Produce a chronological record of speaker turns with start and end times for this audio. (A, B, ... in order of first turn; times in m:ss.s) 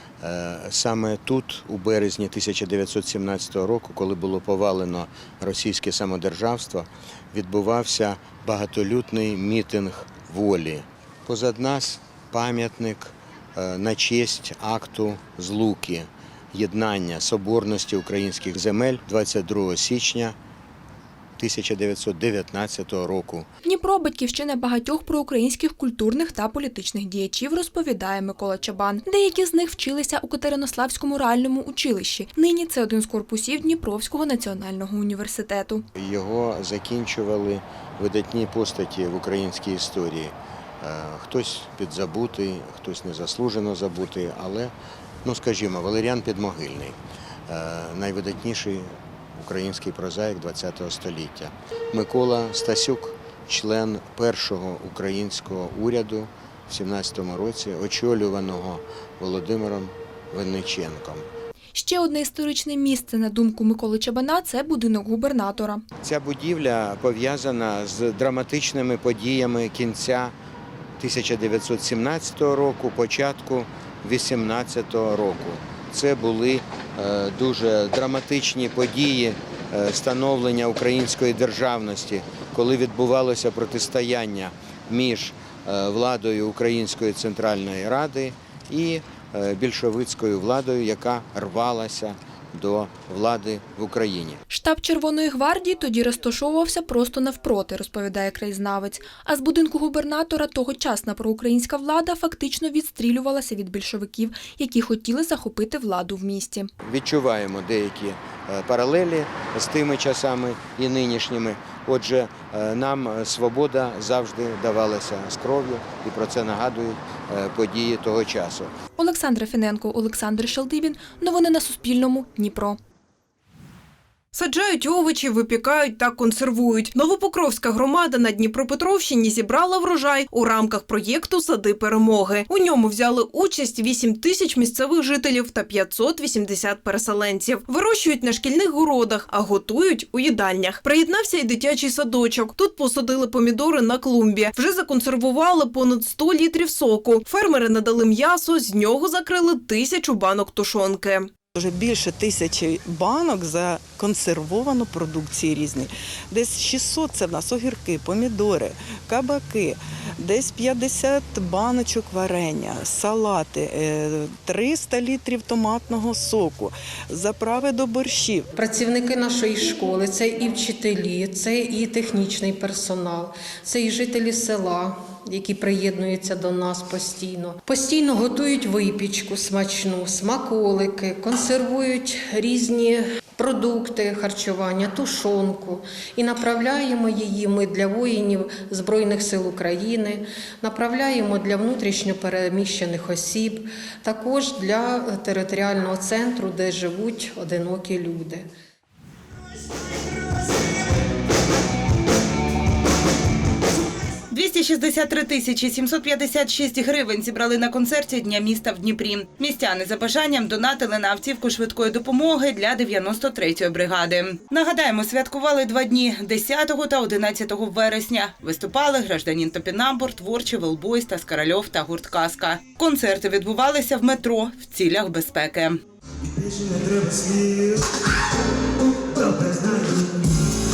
0:00.2-0:20.3 A
0:21.4-0:23.5 A
0:23.6-0:35.8 B
0:36.0-0:44.7 A
0:45.2-1:01.2 A
1:01.7-1:05.8 B
1:06.0-1:10.3 A
1:11.0-1:34.4 A
1:34.5-1:46.7 B
1:46.8-1:58.7 A
1:59.0-2:02.8 B
2:04.3-2:31.3 C
2:31.6-2:48.4 D
2:48.6-3:18.4 E
3:24.3-3:45.8 F
3:46.4-3:47.7 A
3:49.2-3:50.0 A